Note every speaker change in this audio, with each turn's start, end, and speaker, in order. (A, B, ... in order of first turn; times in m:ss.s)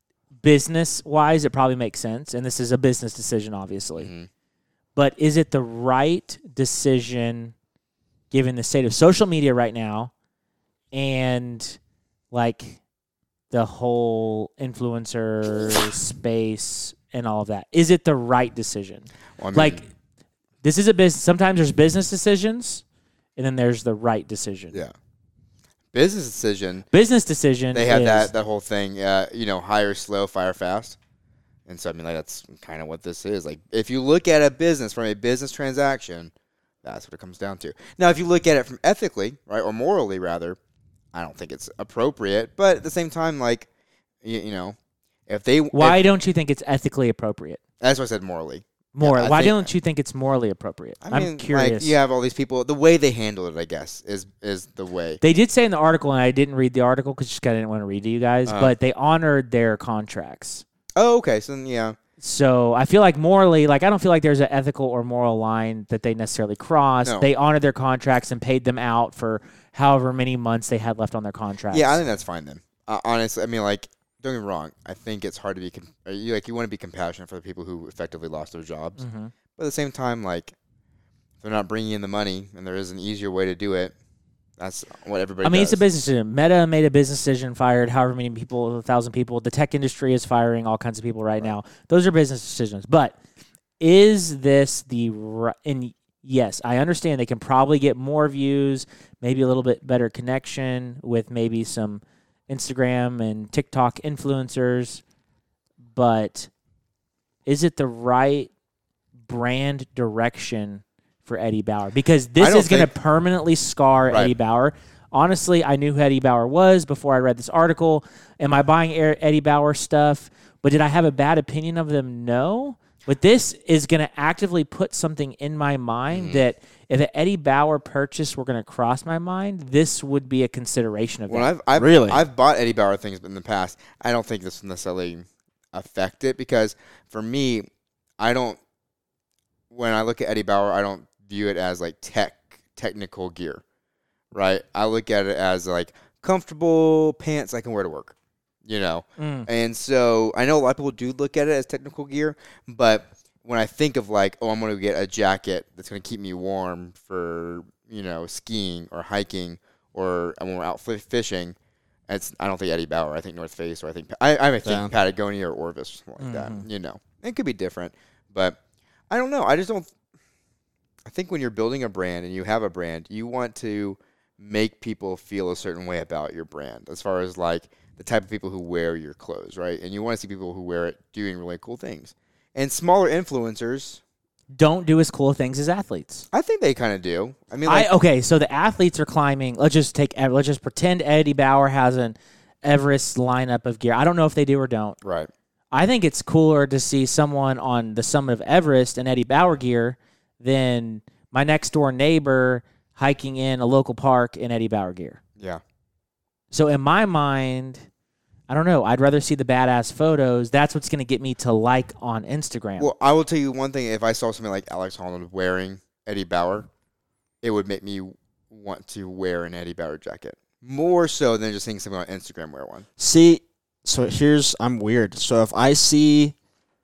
0:00.4-0:04.1 A
0:04.0-0:04.3 B
0:05.0-0:07.5 A
0:08.3-0:10.1 A
0:10.9-0:11.8 A
0:12.3-0:12.8 A
0:13.5-0:19.8 A
0:19.4-0:19.8 B
0:20.6-0:22.8 A
0:23.4-0:24.8 A
0:25.9-0:26.9 B
0:26.9-0:28.3 A
0:27.7-0:31.0 B
0:31.7-0:36.3 B
0:36.8-0:40.6 B
0:41.1-0:43.7 B
0:44.2-0:44.8 B
0:45.3-0:46.0 B
0:45.7-0:47.6 A
0:47.8-0:49.7 B
0:48.9-0:52.0 A
0:51.0-0:55.2 B
0:55.2-1:00.6 A
0:58.5-0:58.7 B
1:01.0-1:02.0 B
1:02.2-1:12.0 A
1:11.7-1:19.0 B
1:19.0-1:19.3 A
1:19.6-1:20.6 B
1:21.4-1:24.0 B
1:24.6-1:25.8 B
1:25.4-1:33.2 A
1:33.8-1:45.0 A
1:45.9-1:46.5 A
1:47.5-1:48.5 A
1:49.3-2:11.5 A
1:52.4-1:52.9 B
2:06.1-2:06.4 B
2:11.3-2:17.7 B
2:11.8-2:12.3 C
2:18.2-2:18.6 B
2:19.7-2:23.6 B
2:24.3-2:41.6 B
2:29.2-2:29.5 A
2:42.1-2:48.6 B
2:44.6-2:44.9 C
2:46.2-2:46.7 A
2:49.1-2:49.9 B
2:51.1-3:04.0 B
3:04.5-3:06.2 A
3:06.3-3:07.9 B
3:07.7-3:15.0 A
3:15.0-3:15.3 B
3:15.7-3:25.2 A
3:26.5-3:27.8 A
3:28.5-3:32.9 A
3:32.8-3:36.7 B
3:37.4-3:42.9 B
3:43.0-3:46.4 C